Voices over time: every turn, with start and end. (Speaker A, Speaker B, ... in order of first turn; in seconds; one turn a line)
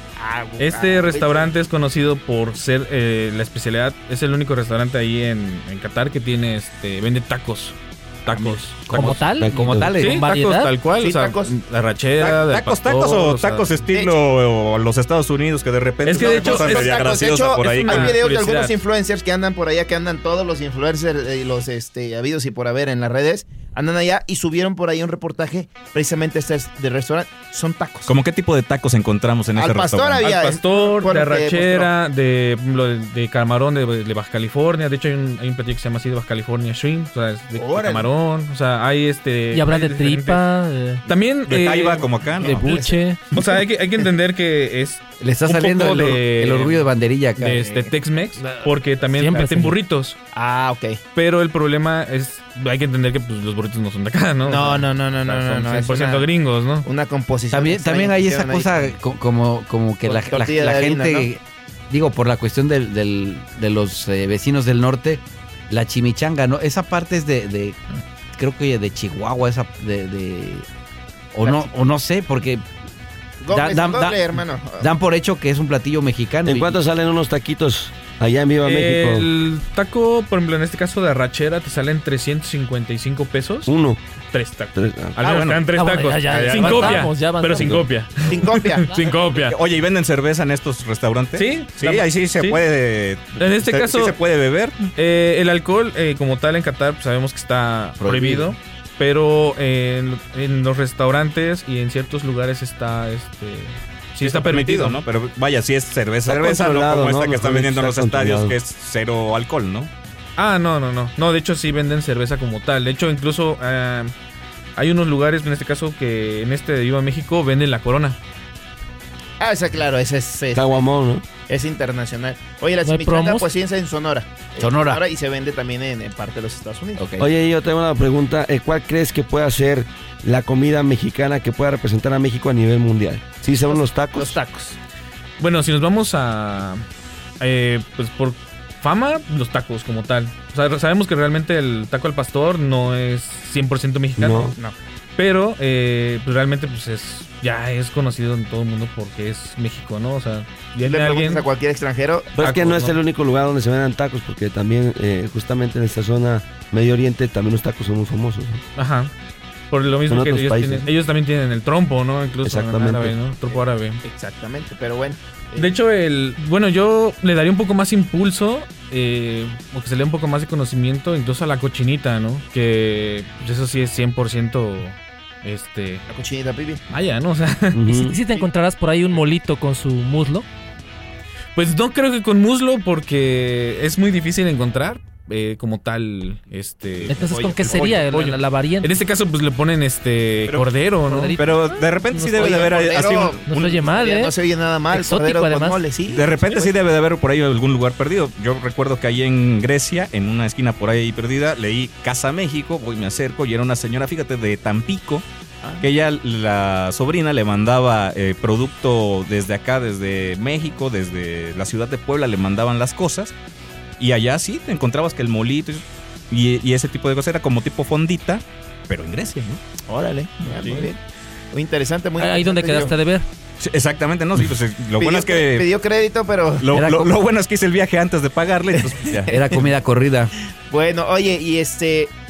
Speaker A: 0.2-1.5
Speaker B: 0.6-9.2
Speaker C: 8.3-10.2
Speaker D: 8.9-10.8
Speaker E: 9.4-10.0
Speaker B: 10.0-13.8
Speaker A: 11.0-11.6
Speaker F: 12.2-18.2
Speaker B: 16.1-17.1
Speaker A: 16.1-28.2
Speaker B: 17.6-18.8
Speaker F: 28.1-30.3
Speaker A: 29.6-31.9
Speaker B: 30.2-40.4
Speaker A: 37.5-38.1
Speaker D: 39.5-41.0
Speaker B: 41.1-42.1
Speaker F: 41.5-42.8
Speaker D: 42.4-43.4
Speaker A: 42.4-43.4
Speaker B: 43.3-50.2
Speaker C: 45.2-47.7
Speaker A: 47.5-48.7
Speaker D: 49.1-49.8
Speaker A: 50.3-51.0
Speaker B: 51.2-56.9
Speaker A: 54.5-56.3
Speaker A: 56.9-59.0
Speaker C: 57.5-67.8
Speaker A: 60.0-61.3
Speaker C: 68.4-70.7
Speaker C: 71.3-72.6
Speaker A: 71.4-71.7
Speaker A: 73.4-74.9
Speaker C: 73.5-76.8
Speaker E: 76.5-79.3
Speaker B: 78.6-83.7
Speaker E: 83.7-84.0
Speaker B: 84.3-89.6
Speaker E: 84.8-85.2
Speaker F: 85.2-85.7
Speaker A: 85.2-85.6
Speaker D: 85.7-88.0
Speaker A: 86.2-87.1
Speaker A: 88.3-88.9
Speaker F: 89.4-94.9
Speaker B: 91.4-92.6
Speaker B: 93.4-94.2
Speaker B: 95.0-105.0
Speaker C: 98.0-98.5
Speaker F: 104.2-109.9
Speaker E: 106.3-108.6
Speaker B: 110.4-114.1
Speaker B: 114.8-118.2
Speaker A: 119.4-120.8
Speaker E: 120.5-121.2
Speaker A: 121.5-127.0
Speaker D: 122.8-123.5
Speaker C: 124.6-125.0
Speaker C: 127.0-127.3
Speaker E: 127.2-134.4
Speaker A: 133.7-134.8
Speaker B: 135.4-136.8
Speaker B: 137.4-144.6
Speaker E: 144.2-144.5
Speaker B: 145.2-151.5
Speaker A: 150.8-152.4
Speaker E: 152.4-158.7
Speaker B: 152.4-153.0
Speaker B: 158.8-159.1
Speaker B: 159.7-164.0
Speaker E: 160.1-160.9
Speaker E: 162.4-163.2
Speaker A: 163.5-165.7
Speaker B: 165.6-176.1
Speaker A: 176.1-176.8
Speaker B: 176.9-177.9
Speaker E: 177.7-178.2
Speaker D: 177.9-180.5
Speaker B: 181.6-191.4
Speaker D: 187.0-188.9
Speaker A: 187.2-188.1
Speaker D: 191.0-194.3
Speaker F: 191.3-193.9
Speaker A: 192.4-196.8
Speaker D: 194.9-195.8
Speaker F: 196.1-205.2
Speaker F: 205.8-213.3
Speaker F: 214.0-219.6
Speaker A: 219.9-221.0
Speaker F: 220.6-220.9
Speaker A: 221.5-222.9
Speaker D: 222.2-223.2
Speaker F: 223.6-225.7
Speaker A: 225.0-226.7
Speaker F: 226.6-229.3
Speaker C: 226.7-227.1
Speaker A: 228.8-229.6
Speaker C: 229.3-230.3
Speaker A: 230.7-232.1